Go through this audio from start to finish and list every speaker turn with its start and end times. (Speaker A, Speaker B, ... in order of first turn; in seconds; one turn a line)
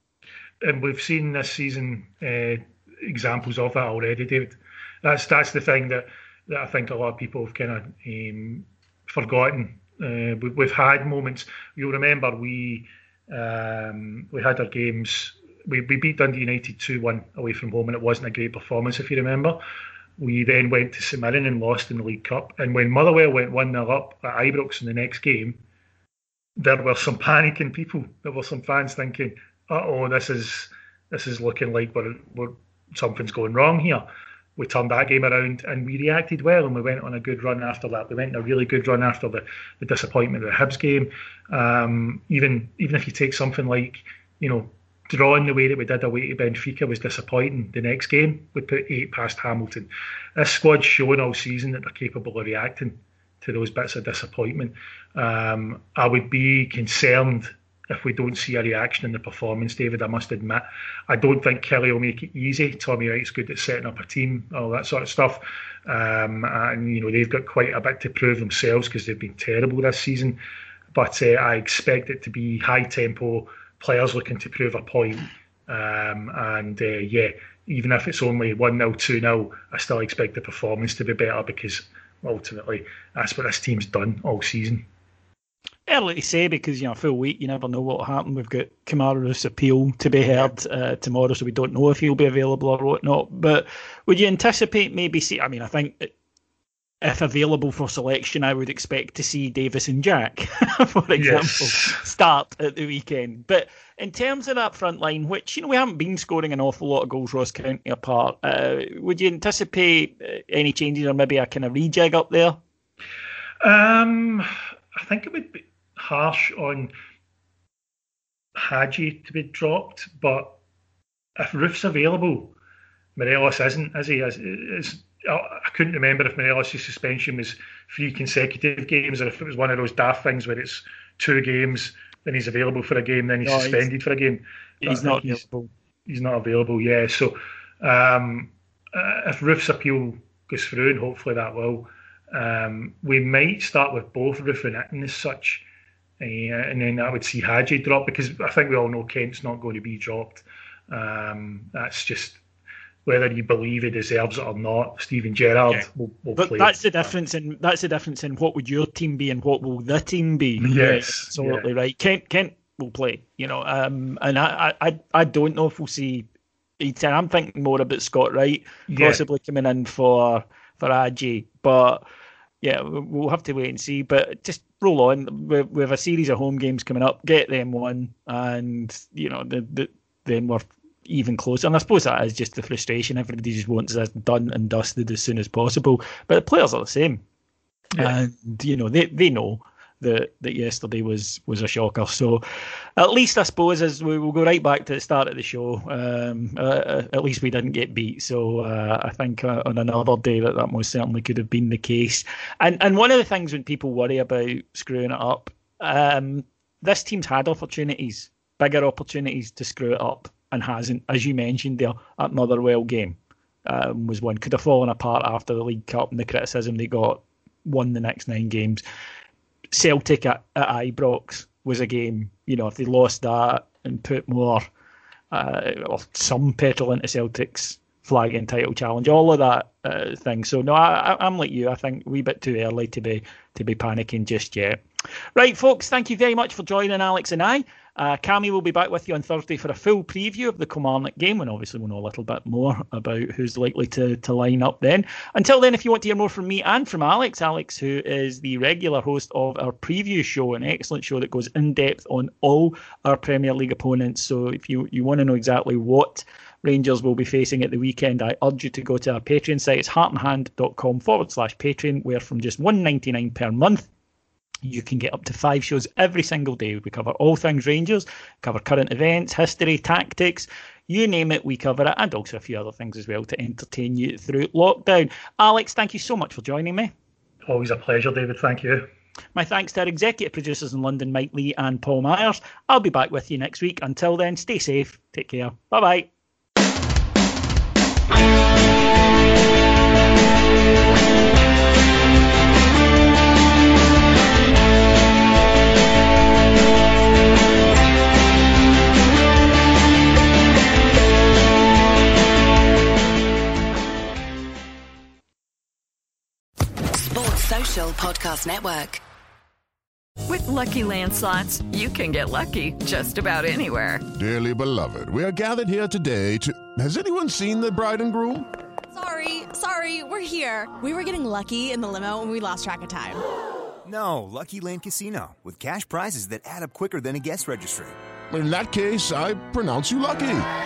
Speaker A: 0.6-19.6
Speaker A: 20.2-25.6
Speaker A: 26.6-70.4
Speaker A: 70.9-84.8
Speaker B: 85.9-96.1
Speaker B: 97.0-112.6
Speaker A: 101.2-102.0
Speaker A: 113.6-116.9
Speaker A: 118.5-120.6
Speaker A: 121.4-122.5
Speaker A: 123.2-135.4
Speaker B: 133.4-133.8
Speaker B: 134.8-135.7
Speaker A: 136.1-145.7
Speaker A: 146.2-152.4
Speaker A: 153.1-157.1
Speaker B: 156.3-166.3
Speaker A: 160.6-161.6
Speaker B: 166.8-172.0
Speaker A: 168.9-169.2
Speaker B: 172.6-187.2
Speaker B: 188.0-192.4
Speaker B: 193.0-218.8
Speaker B: 219.7-224.6
Speaker B: 225.3-234.8
Speaker B: 235.3-263.9
Speaker B: 264.6-276.9
Speaker A: 277.4-278.9
Speaker B: 279.3-286.1
Speaker C: 306.9-309.0
Speaker D: 310.3-314.0
Speaker E: 314.1-318.5
Speaker F: 318.9-323.2
Speaker G: 323.8-328.0
Speaker E: 328.3-330.5